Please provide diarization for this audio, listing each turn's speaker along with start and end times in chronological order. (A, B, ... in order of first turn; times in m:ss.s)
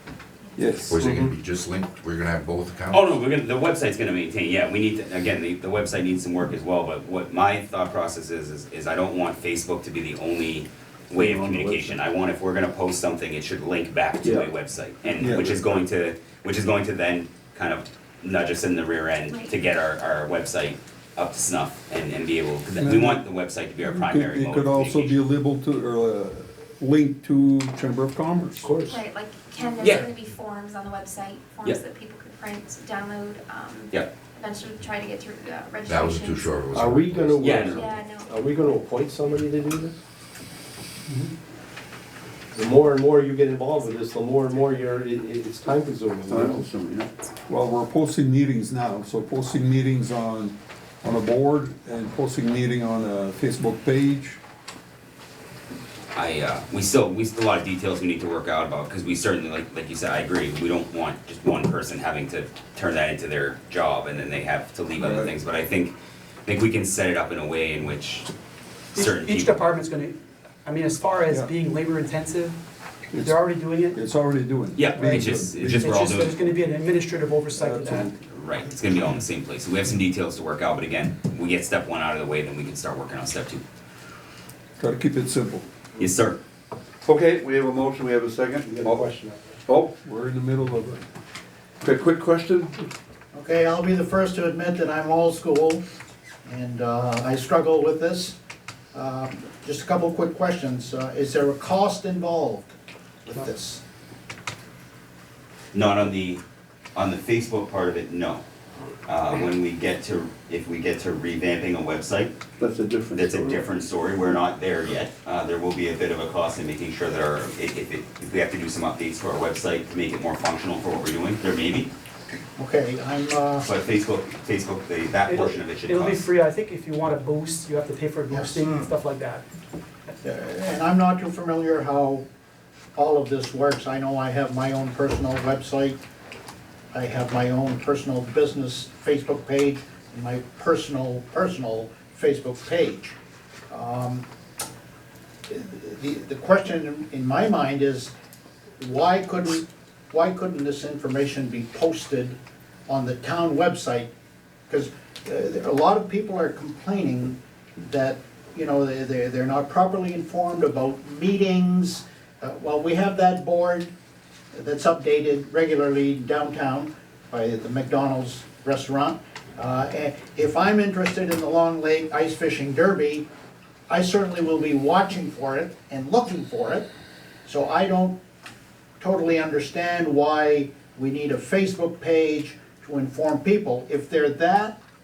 0:00.6-0:01.2 A
0:00.9-0:03.2 B
0:01.0-0:01.3 C
0:02.9-0:25.2 D
0:11.5-0:11.9 E
0:14.2-0:14.5 E
0:15.2-0:15.6 A
0:19.3-0:19.6 F
0:22.8-0:23.2 A
0:23.8-0:28.7 A
0:28.6-0:29.0 E
0:28.8-0:36.8 F
0:29.8-0:30.1 D
0:35.9-0:37.4 B
0:36.7-0:40.0 E
0:37.3-0:38.0 D
0:37.7-0:38.4 F
0:42.5-0:46.7 E
0:46.3-0:47.1 C
0:47.5-0:54.4 A
0:56.1-1:05.9 D
1:05.0-1:05.3 A
1:06.5-1:08.3 D
1:08.9-1:09.6 D
1:09.0-1:12.6 G
1:13.1-1:16.1 A
1:13.2-1:14.0 G
1:14.8-1:16.4 D
1:15.0-1:18.1 G
1:17.5-1:18.2 A
1:18.3-1:23.6 D
1:24.8-1:25.7 A
1:26.0-1:26.4 D
1:27.0-1:29.1 C
1:28.6-1:29.4 E
1:29.7-1:29.9 C
1:30.0-1:31.0 A
1:31.8-1:32.8 C
1:33.3-1:35.8 H
1:36.4-1:38.4 H
1:38.9-1:42.7 H
1:43.3-1:43.8 H
1:45.7-1:46.4 D
1:47.0-1:48.4 D
1:49.1-1:52.4 D
1:52.6-1:53.6 C
1:53.1-2:01.9 D
2:02.6-2:03.7 H
2:03.6-2:06.3 D
2:05.3-2:09.4 G
2:08.3-2:08.8 H
2:10.2-2:12.2 H
2:13.0-2:16.0 H
2:16.9-2:23.2 H
2:23.7-2:24.3 H
2:25.5-2:28.1 H
2:28.8-2:34.1 H
2:34.7-2:43.9 H
2:44.5-2:53.3 H
2:53.9-2:56.9 H
2:57.4-2:58.2 H
2:59.0-3:04.8 H